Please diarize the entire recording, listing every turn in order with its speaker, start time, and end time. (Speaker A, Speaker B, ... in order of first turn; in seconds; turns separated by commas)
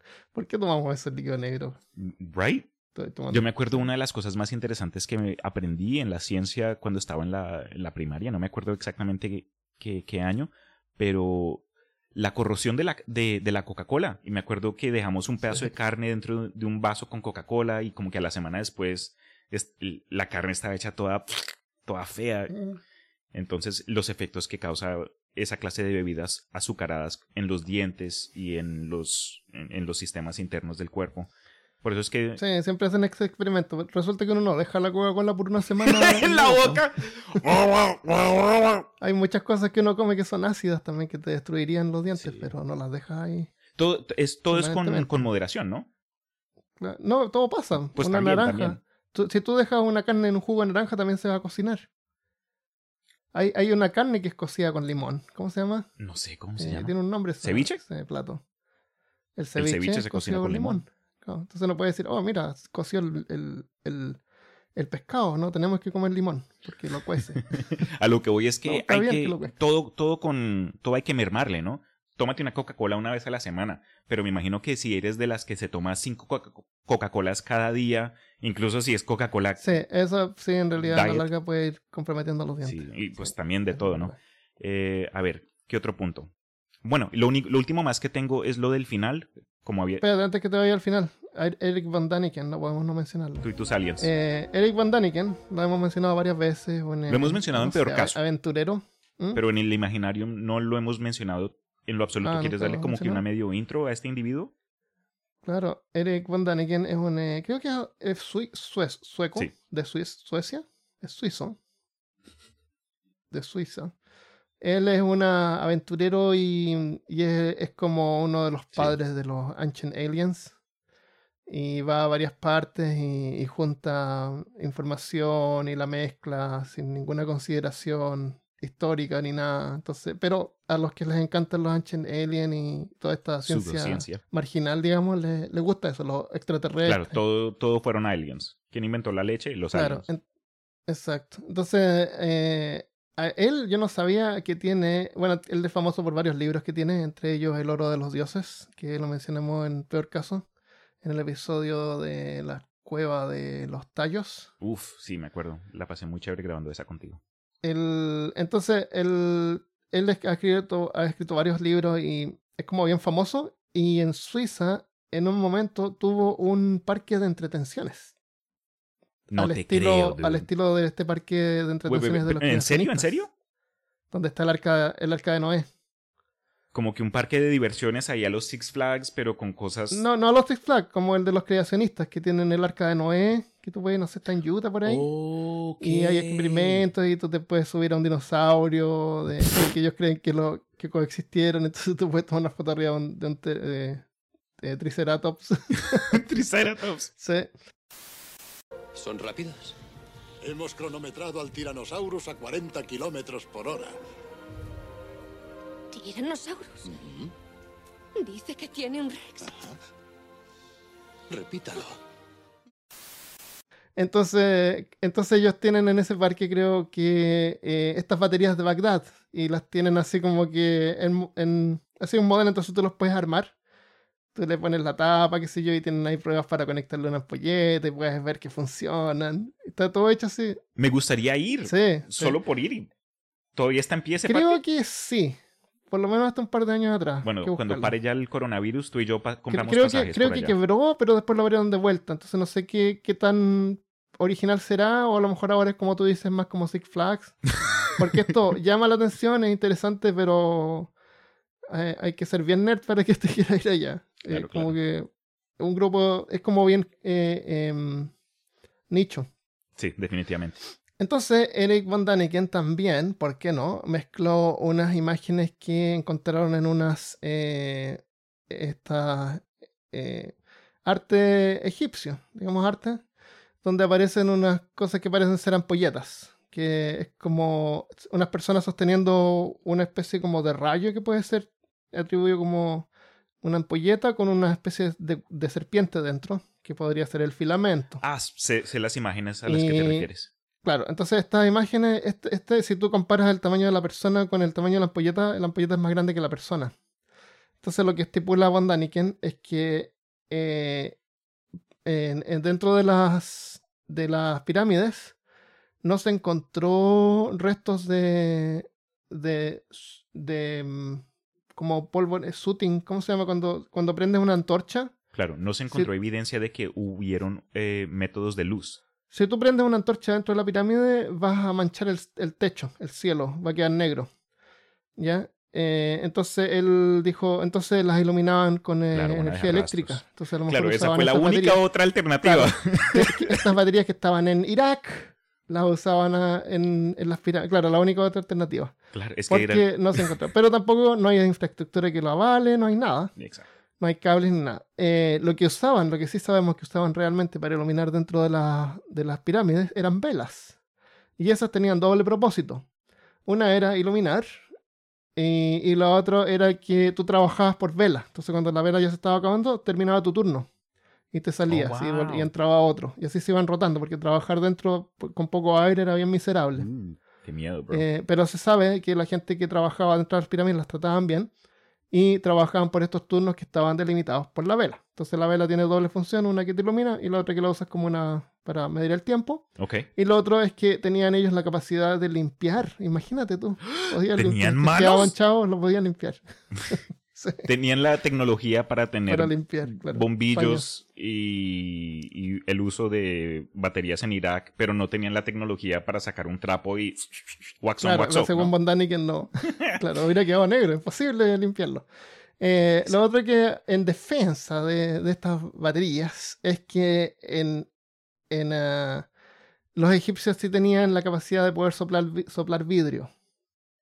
Speaker A: 0.3-1.8, Speaker B: 2.0-2.7, Speaker A: 2.9-3.5, Speaker B: 3.3-11.6, Speaker B: 12.1-22.6, Speaker B: 23.3-31.3, Speaker B: 31.8-32.4, Speaker A: 32.4-36.8, Speaker B: 35.8-38.8, Speaker A: 39.0-43.5, Speaker B: 42.2-42.5, Speaker B: 43.8-45.9, Speaker A: 44.5-45.3, Speaker A: 46.8-51.9, Speaker B: 47.9-48.8, Speaker A: 53.3-55.9, Speaker B: 56.0-57.8, Speaker A: 56.6-58.4, Speaker A: 59.4-64.2, Speaker B: 59.6-60.8, Speaker A: 64.7-67.4, Speaker B: 67.5-79.8, Speaker A: 68.7-69.5, Speaker A: 79.6-84.2, Speaker B: 80.8-81.3, Speaker B: 82.6-86.3, Speaker B: 86.8-90.0, Speaker A: 90.0-93.5, Speaker B: 93.4-94.1, Speaker A: 94.0-99.4, Speaker B: 97.1-98.2, Speaker B: 99.3-104.5, Speaker A: 102.2-103.2, Speaker A: 105.4-111.6, Speaker A: 113.3-113.9, Speaker A: 114.6-120.5, Speaker A: 121.5-137.2, Speaker B: 133.4-134.2, Speaker B: 136.8-140.0, Speaker A: 139.7-140.2, Speaker A: 140.9-150.4, Speaker A: 151.0-154.5, Speaker B: 154.6-157.2, Speaker A: 157.6-168.1, Speaker B: 169.3-170.5, Speaker A: 169.3-173.2, Speaker B: 171.9-173.3, Speaker A: 174.1-175.7, Speaker B: 176.7-180.0, Speaker A: 179.9-185.1, Speaker B: 184.8-186.9, Speaker A: 185.8-194.0, Speaker A: 194.6-196.2, Speaker B: 195.9-197.1, Speaker A: 197.2-197.5, Speaker C: 198.9-199.8, Speaker D: 200.4-203.9, Speaker E: 205.9-206.9, Speaker C: 206.8-207.3, Speaker E: 208.2-209.7, Speaker C: 211.3-212.0, Speaker A: 213.9-223.5, Speaker A: 224.3-230.6, Speaker B: 230.8-232.9, Speaker A: 231.7-232.4, Speaker B: 233.6-234.6, Speaker A: 234.2-237.9, Speaker B: 237.2-240.6, Speaker A: 239.5-250.9, Speaker A: 251.7-258.1, Speaker B: 254.3-254.8, Speaker A: 258.9-259.3, Speaker B: 259.8-260.6, Speaker A: 261.0-273.0, Speaker A: 273.6-282.9, Speaker A: 283.4-288.0, Speaker B: 288.0-290.3, Speaker A: 289.5-290.1, Speaker A: 290.6-296.7, Speaker A: 297.6-301.0, Speaker A: 301.8-305.1, Speaker A: 305.8-314.9, Speaker B: 315.1-318.8, Speaker A: 319.1-324.1, Speaker A: 325.0-331.6, Speaker B: 328.9-333.4, Speaker A: 332.2-338.8, Speaker B: 338.9-340.0, Speaker A: 339.3-343.1, Speaker B: 343.2-343.5, Speaker A: 343.8-350.6, Speaker A: 351.2-352.6, Speaker A: 353.2-354.5, Speaker A: 355.1-360.5, Speaker A: 361.1-366.7, Speaker B: 361.5-362.3, Speaker B: 366.6-367.9, Speaker A: 367.7-371.3, Speaker A: 371.9-387.5, Speaker B: 379.6-379.9, Speaker B: 383.7-385.1, Speaker B: 387.4-398.5, Speaker A: 389.1-390.6, Speaker A: 397.8-401.9, Speaker A: 402.4-407.7, Speaker A: 408.3-409.1, Speaker A: 409.7-413.1